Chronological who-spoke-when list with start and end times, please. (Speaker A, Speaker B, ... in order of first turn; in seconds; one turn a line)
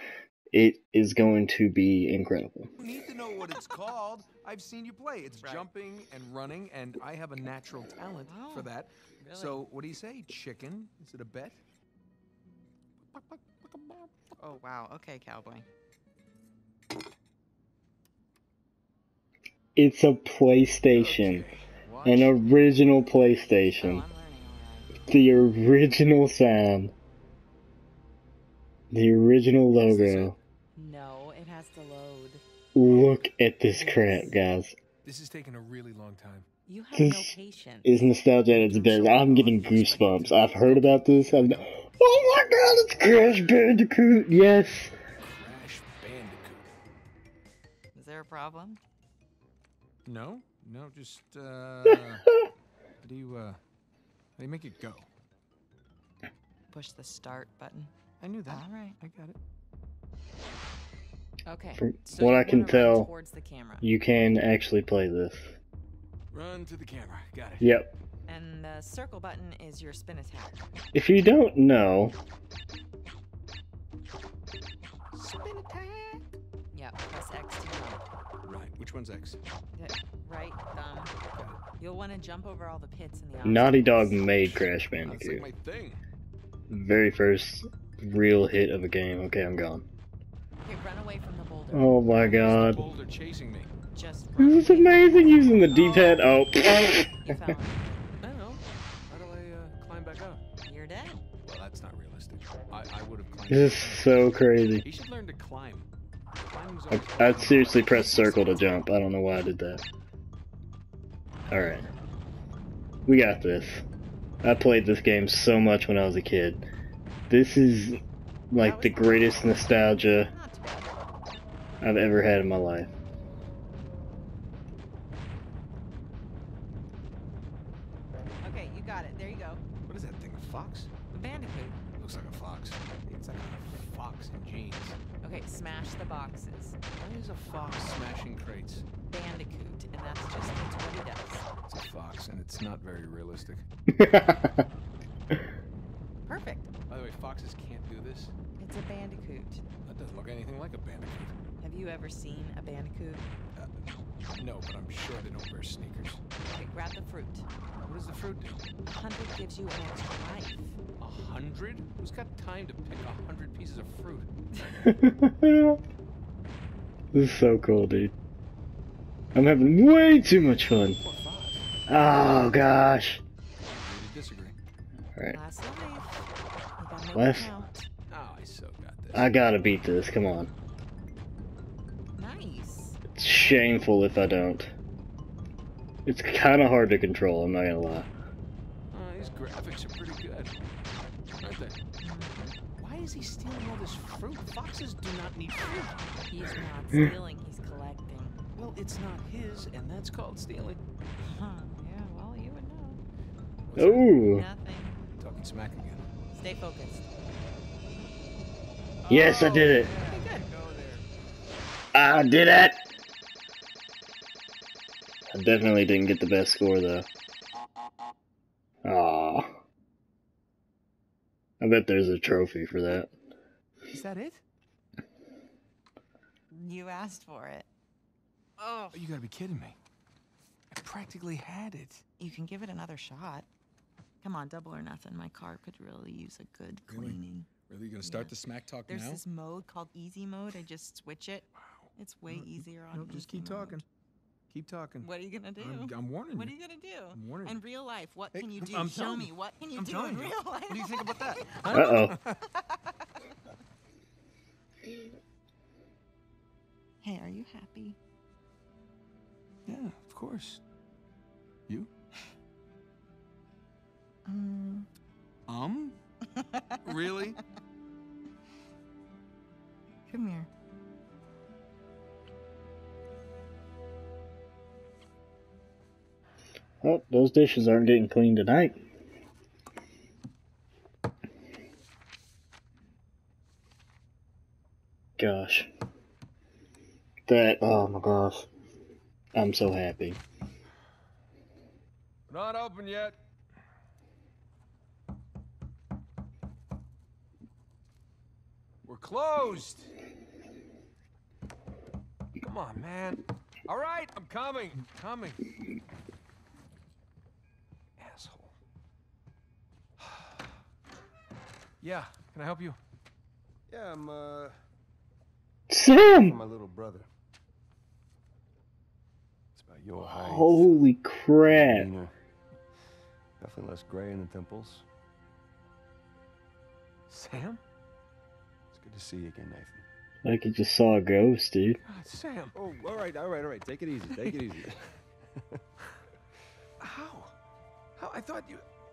Speaker A: 0.5-2.7
Speaker B: 2.8-11.6
Speaker C: 5.4-5.7
Speaker C: 8.2-9.6
Speaker B: 13.1-14.1
Speaker C: 14.4-15.7
Speaker A: 19.8-21.5
Speaker B: 20.9-23.1
Speaker A: 22.0-24.1
Speaker C: 23.7-25.0
Speaker A: 25.1-26.9
Speaker A: 28.9-30.4
Speaker B: 29.8-30.3
Speaker C: 30.7-32.4
Speaker A: 32.7-34.7
Speaker B: 32.9-33.1
Speaker C: 33.7-34.4
Speaker B: 35.0-36.5
Speaker C: 36.6-39.1
Speaker A: 36.9-44.9
Speaker B: 38.5-41.7
Speaker B: 45.2-46.7
Speaker C: 47.9-48.8
Speaker B: 50.0-52.3
Speaker B: 53.0-53.6
Speaker B: 54.4-55.1
Speaker C: 56.7-57.9
Speaker B: 58.2-59.4
Speaker C: 58.5-59.0
Speaker C: 61.5-63.9
Speaker A: 61.8-63.1
Speaker A: 63.8-65.5
Speaker B: 66.3-67.7
Speaker A: 67.6-67.9
Speaker C: 68.3-70.6
Speaker A: 70.9-72.1
Speaker B: 75.1-76.3
Speaker C: 76.7-78.0
Speaker B: 78.4-79.4
Speaker C: 79.7-81.1
Speaker C: 81.8-84.5
Speaker A: 83.4-85.5
Speaker B: 84.5-86.0
Speaker A: 86.7-89.8
Speaker C: 90.6-92.3
Speaker A: 91.7-92.8
Speaker B: 92.2-93.7
Speaker C: 93.9-96.2
Speaker A: 94.4-97.3
Speaker B: 95.8-96.1
Speaker C: 97.2-98.1
Speaker B: 98.2-100.4
Speaker C: 100.6-101.2
Speaker B: 101.4-104.3
Speaker A: 103.5-104.8
Speaker B: 104.8-105.9
Speaker B: 106.4-108.9
Speaker A: 106.9-109.8
Speaker A: 111.5-111.9
Speaker A: 113.1-113.8
Speaker A: 114.4-116.6
Speaker A: 117.3-120.3
Speaker C: 118.6-120.9
Speaker A: 121.8-122.9
Speaker C: 128.4-129.6
Speaker B: 129.8-130.9
Speaker C: 131.1-131.8
Speaker B: 131.9-135.0
Speaker C: 135.2-136.8
Speaker B: 136.9-138.9
Speaker C: 139.1-141.5
Speaker B: 141.7-143.7
Speaker A: 144.0-144.6
Speaker C: 146.2-146.7
Speaker B: 146.9-148.3
Speaker C: 148.6-149.6
Speaker B: 149.8-151.3
Speaker C: 151.6-153.3
Speaker B: 153.6-156.2
Speaker C: 156.4-157.5
Speaker B: 157.8-158.6
Speaker C: 158.8-160.8
Speaker B: 161.0-164.3
Speaker C: 164.6-164.8
Speaker A: 164.8-165.8
Speaker A: 167.1-168.1
Speaker A: 169.3-171.0
Speaker B: 171.0-171.7
Speaker A: 171.9-173.2
Speaker B: 173.8-174.6
Speaker C: 175.3-177.9
Speaker A: 177.1-177.5
Speaker B: 178.1-179.3
Speaker A: 179.1-180.5
Speaker C: 182.1-183.7
Speaker A: 183.1-184.7
Speaker A: 186.1-188.1
Speaker B: 188.9-190.8
Speaker B: 191.4-191.8
Speaker C: 192.0-192.6
Speaker B: 192.7-196.1
Speaker C: 196.2-198.4
Speaker B: 198.5-200.8
Speaker C: 201.2-203.0
Speaker B: 203.7-204.1
Speaker A: 203.8-204.4
Speaker C: 204.2-205.1
Speaker B: 205.1-206.1
Speaker C: 206.3-207.1
Speaker B: 209.0-211.0
Speaker A: 209.1-209.9
Speaker C: 210.0-210.4
Speaker A: 211.9-212.9
Speaker A: 215.3-217.1
Speaker A: 218.8-219.6
Speaker A: 221.6-223.1
Speaker B: 223.9-224.4
Speaker C: 226.5-227.7
Speaker C: 228.6-228.9
Speaker B: 228.9-229.8
Speaker B: 230.7-232.0
Speaker C: 232.2-233.5
Speaker C: 234.2-237.5
Speaker B: 236.9-239.2
Speaker C: 238.0-238.3
Speaker C: 238.9-243.8
Speaker B: 241.7-243.8
Speaker B: 244.5-245.1
Speaker C: 245.0-253.1
Speaker B: 245.6-246.5
Speaker B: 247.1-247.6
Speaker B: 248.3-252.4
Speaker A: 251.7-252.2
Speaker C: 257.0-258.0
Speaker B: 259.6-260.6
Speaker C: 264.3-264.9
Speaker B: 265.5-266.0
Speaker C: 266.3-267.2
Speaker B: 266.8-267.4
Speaker C: 270.1-270.5
Speaker A: 276.8-278.8
Speaker A: 285.2-285.7
Speaker A: 287.3-288.5
Speaker A: 289.3-290.2
Speaker B: 292.3-293.2
Speaker B: 298.8-299.9
Speaker B: 302.4-305.4
Speaker B: 308.0-308.6
Speaker B: 311.8-312.8
Speaker D: 313.7-314.5
Speaker A: 315.7-316.4
Speaker D: 316.0-317.1
Speaker D: 319.5-320.7
Speaker A: 320.0-321.9
Speaker D: 321.5-322.1
Speaker D: 323.4-324.9
Speaker B: 327.1-327.6
Speaker D: 328.7-329.8
Speaker A: 330.2-331.8
Speaker B: 331.8-332.5
Speaker D: 332.5-335.6
Speaker B: 336.8-337.4
Speaker B: 338.0-338.6